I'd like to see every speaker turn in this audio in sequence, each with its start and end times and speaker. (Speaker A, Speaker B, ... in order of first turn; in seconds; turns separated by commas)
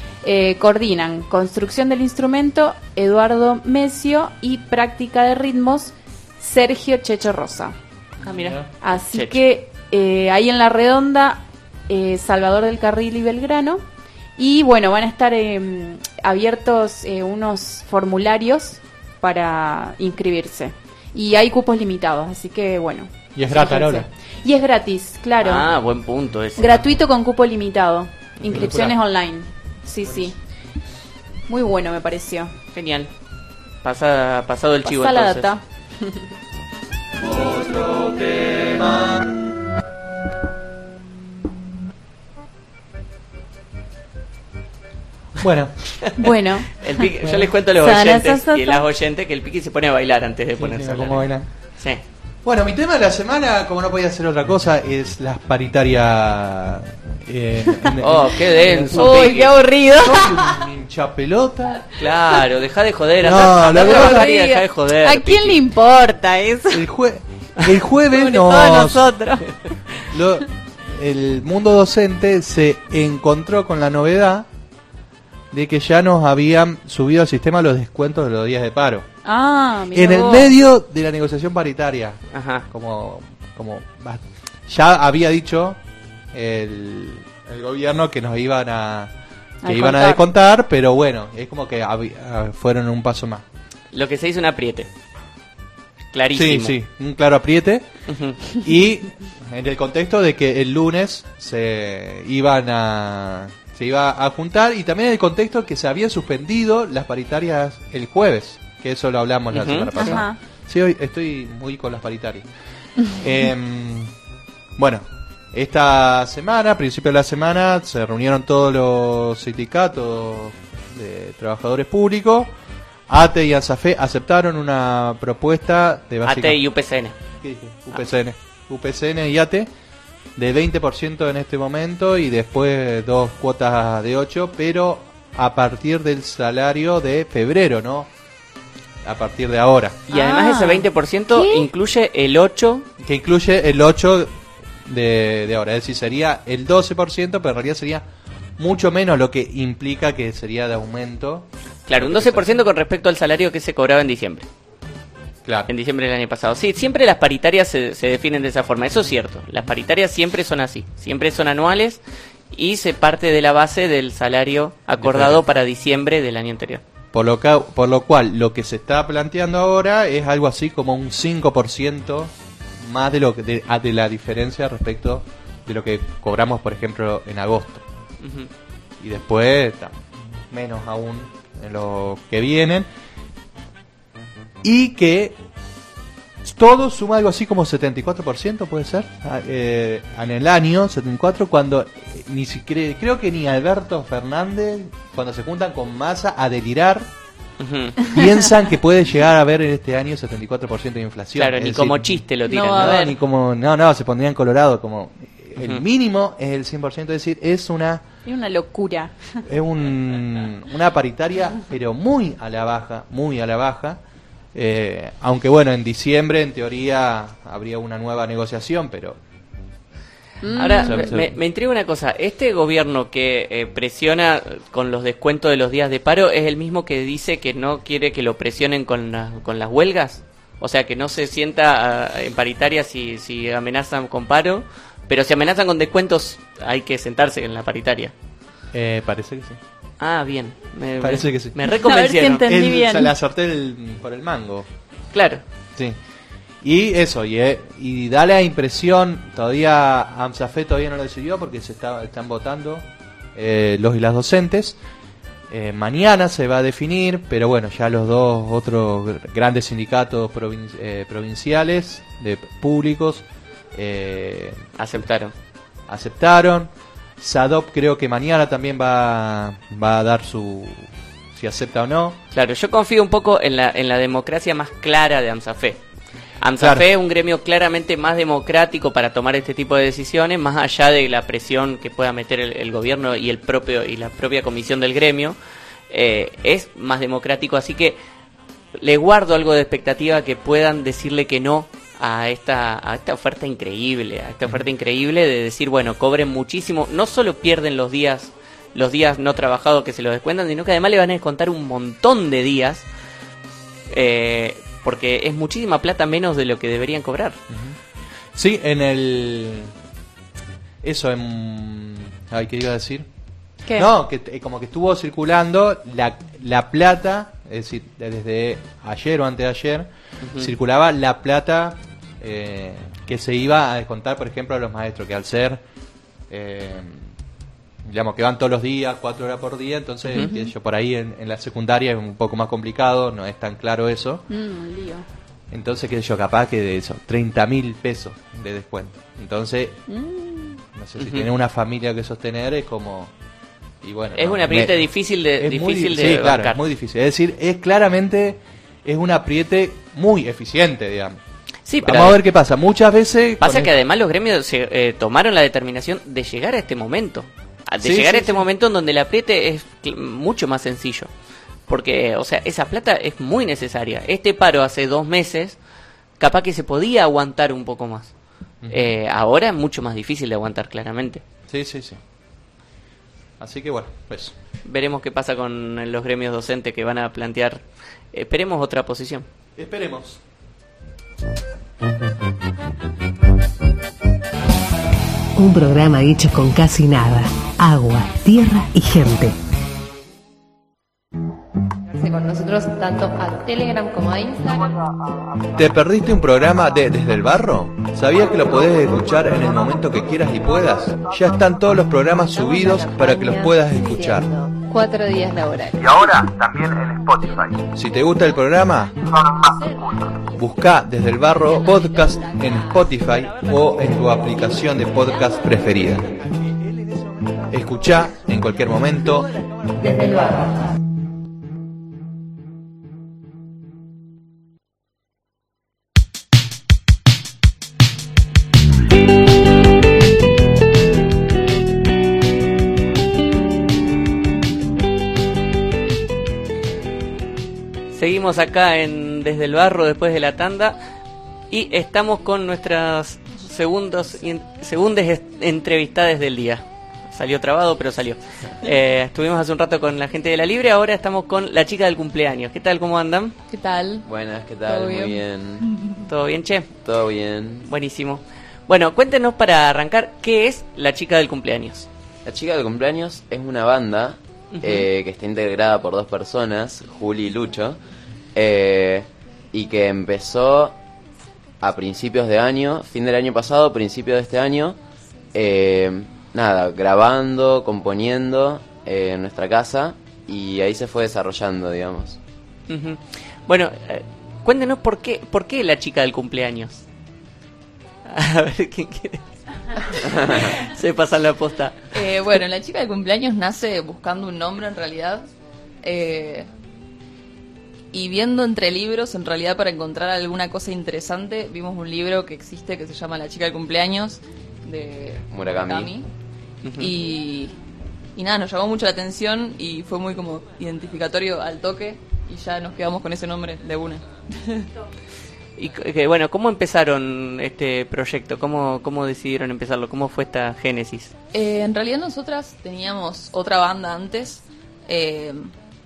Speaker A: 0.2-7.8, Speaker B: 8.2-8.7, Speaker C: 8.2-8.6, Speaker A: 8.8-13.8, Speaker C: 9.1-9.4, Speaker A: 14.4-25.6, Speaker B: 23.4-24.1, Speaker C: 25.4-26.9, Speaker A: 26.6-30.4, Speaker C: 28.4-28.7, Speaker B: 28.5-29.0, Speaker B: 30.1-30.3, Speaker A: 31.5-32.5, Speaker C: 32.7-33.1, Speaker C: 33.8-35.5, Speaker A: 34.9-36.1, Speaker B: 37.3-39.2, Speaker B: 45.4-45.8, Speaker A: 46.2-46.9, Speaker C: 46.8-52.0, Speaker B: 47.2-47.5, Speaker A: 47.8-48.8, Speaker B: 50.6-51.5, Speaker B: 52.4-59.4, Speaker C: 58.0-59.5, Speaker A: 58.9-60.6, Speaker B: 60.0-62.1, Speaker C: 62.0-65.6, Speaker B: 63.2-64.3, Speaker A: 63.7-66.8, Speaker B: 66.7-69.1, Speaker A: 68.1-69.5, Speaker B: 70.1-74.5, Speaker B: 75.5-79.1, Speaker A: 79.2-80.5, Speaker B: 79.9-85.8, Speaker C: 82.3-82.7, Speaker B: 86.3-89.1, Speaker A: 89.6-90.3, Speaker B: 89.6-93.5, Speaker C: 93.9-94.9, Speaker C: 96.1-96.8, Speaker B: 96.3-97.9, Speaker C: 98.1-98.4, Speaker B: 98.5-112.5, Speaker C: 109.5-110.2, Speaker A: 110.0-110.4, Speaker B: 113.2-114.1, Speaker B: 114.8-122.5, Speaker B: 123.1-126.6, Speaker C: 126.2-127.2, Speaker B: 127.4-129.7, Speaker B: 130.4-138.1, Speaker B: 139.0-140.0, Speaker C: 140.1-142.9, Speaker A: 140.1-141.7, Speaker B: 143.0-148.1, Speaker B: 148.6-152.5, Speaker C: 151.9-154.5, Speaker C: 155.7-162.0, Speaker C: 162.5-166.8, Speaker B: 165.0-165.4, Speaker B: 167.1-177.9, Speaker C: 178.2-178.5, Speaker B: 179.0-182.9, Speaker B: 184.6-185.4, Speaker B: 186.5-197.1, Speaker C: 197.6-198.0, Speaker B: 198.1-208.1, Speaker C: 201.4-203.1, Speaker A: 202.5-203.1, Speaker C: 205.6-205.8, Speaker A: 208.2-209.4, Speaker B: 209.5-214.0, Speaker B: 214.5-219.2, Speaker A: 220.4-221.2, Speaker C: 220.6-238.1, Speaker B: 220.8-221.3, Speaker B: 238.7-239.6, Speaker C: 240.0-242.4, Speaker B: 241.0-241.6, Speaker A: 241.6-243.1, Speaker B: 242.4-244.7, Speaker C: 245.1-245.4, Speaker B: 246.6-254.8, Speaker B: 255.5-265.0, Speaker C: 264.8-265.3, Speaker B: 265.9-272.2, Speaker C: 272.3-275.8, Speaker C: 276.4-285.4, Speaker B: 276.6-276.9, Speaker C: 285.9-288.0, Speaker C: 288.8-302.9, Speaker C: 303.9-307.4, Speaker B: 307.5-307.8, Speaker B: 308.4-309.7, Speaker B: 310.8-313.1, Speaker B: 313.7-325.6, Speaker C: 320.2-320.5, Speaker B: 326.3-327.1, Speaker B: 327.9-334.2, Speaker A: 330.1-330.5, Speaker A: 334.3-335.1, Speaker B: 335.5-339.8, Speaker A: 339.9-340.6, Speaker B: 340.8-343.1, Speaker C: 341.0-341.3, Speaker B: 343.8-344.9, Speaker C: 344.1-346.6, Speaker B: 345.4-351.2, Speaker C: 351.7-352.2, Speaker B: 351.8-353.7, Speaker C: 353.4-361.1, Speaker B: 357.8-358.5, Speaker C: 361.7-365.6, Speaker C: 366.2-368.1, Speaker B: 368.6-368.9, Speaker C: 368.7-371.2, Speaker B: 371.5-372.0, Speaker B: 373.4-374.4, Speaker C: 374.7-379.2, Speaker B: 379.6-380.2, Speaker D: 385.4-389.4, Speaker E: 392.0-394.7, Speaker B: 395.6-404.3, Speaker E: 402.2-406.2, Speaker B: 405.8-409.5, Speaker B: 410.3-420.3, Speaker C: 437.9-440.8, Speaker C: 441.5-453.4, Speaker F: 453.5-454.0, Speaker G: 454.1-455.7, Speaker F: 454.7-455.2, Speaker C: 456.1-456.7, Speaker G: 456.8-457.7, Speaker C: 457.7-461.9, Speaker G: 462.2-467.8, Speaker C: 464.5-464.9, Speaker G: 468.4-470.8, Speaker G: 471.6-474.8, Speaker G: 475.3-482.2, Speaker C: 482.7-486.8, Speaker C: 488.1-489.2, Speaker G: 490.2-490.5, Speaker C: 490.6-491.9, Speaker F: 491.9-495.3, Speaker F: 495.8-496.5, Speaker F: 497.9-506.1, Speaker G: 505.3-505.9, Speaker C: 506.6-506.9, Speaker F: 506.8-507.6, Speaker F: 508.2-514.7, Speaker C: 515.6-521.1, Speaker F: 521.3-525.5